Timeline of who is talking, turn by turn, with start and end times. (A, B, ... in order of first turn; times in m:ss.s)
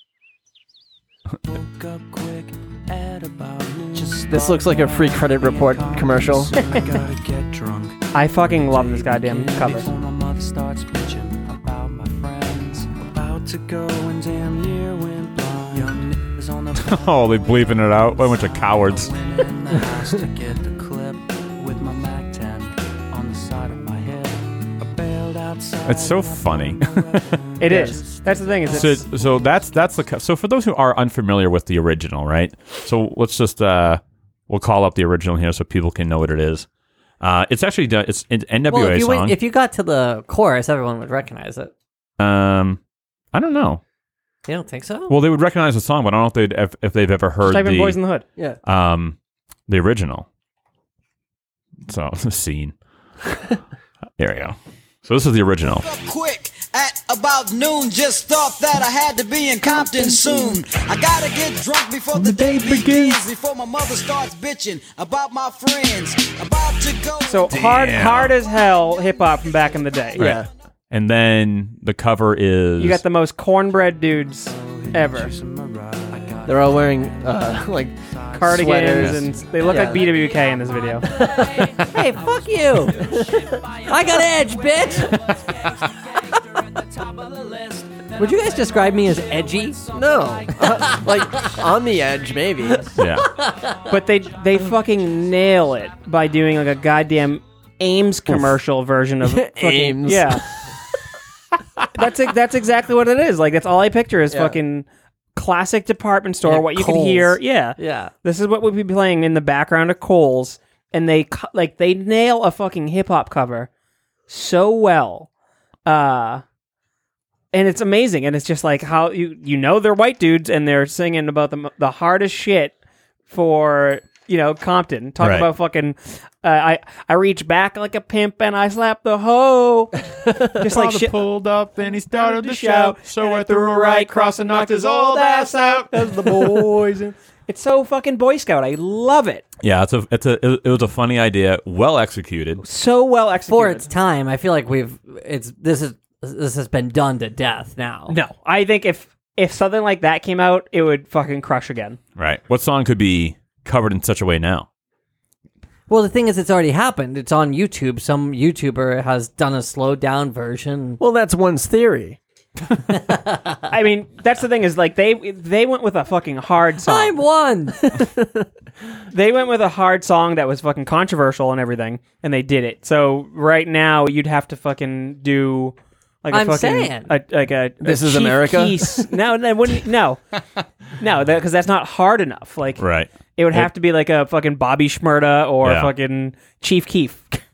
0:01.4-0:29.0 A
0:04.3-0:06.6 B
0:08.1-0:09.9 C
0:16.8-0:19.1 D
0:25.8-0:26.8 D
0:27.6-0:29.0 C
0:28.7-0:36.7 D
0:37.2-0:39.4 D
0:38.7-0:41.7 E
0:42.2-0:42.8 D
0:43.3-0:43.8 D
0:44.5-0:45.1 E
0:45.1-0:48.0 D
0:47.4-0:48.2 C
0:48.6-0:49.2 D
0:49.7-0:50.2 D
0:51.8-0:52.7 D
0:54.2-0:55.8 D
0:55.7-1:07.5 F
1:02.1-1:03.2 D
1:07.3-1:10.2 C
1:07.5-1:08.3 D
1:10.1-1:10.5 B
1:10.9-1:13.0 D
1:12.8-1:15.3 C
1:14.4-1:18.9 A
1:16.4-1:20.1 B
1:18.3-1:21.1 C
1:19.4-1:31.1 A
1:21.0-1:21.7 B
1:21.9-1:22.9 C
1:21.9-1:22.9 E
1:22.9-1:23.6 B
1:23.8-1:25.2 E
1:28.2-1:29.8 E
1:29.9-1:32.9 B
1:30.7-1:31.5 E
1:33.0-1:33.3 D
1:33.4-1:33.7 E
1:33.9-1:40.4 C
1:39.2-1:40.4 B
1:41.9-1:53.7 C
1:44.3-1:44.6 B
1:46.4-1:48.1 E
1:54.3-1:55.3 C
1:55.8-1:56.4 C
1:57.5-2:02.7 C
2:03.3-2:11.2 C
2:05.2-2:05.5 D
2:10.6-2:16.9 D
2:12.1-2:19.4 C
2:19.6-2:22.6 D
2:22.6-2:23.9 C
2:23.5-2:28.2 E
2:28.1-2:32.0 C
2:32.2-2:34.7 D
2:35.9-2:41.0 E
2:41.0-2:42.2 B
2:43.1-2:43.6 E
2:43.7-2:47.2 C
2:46.8-2:47.9 E
2:47.8-2:48.4 B
2:49.1-3:00.2 C
2:56.3-2:57.1 E
2:57.8-2:59.0 B
3:01.0-3:02.8 C
3:02.8-3:03.7 D
3:03.3-3:07.4 C
3:05.6-3:05.9 D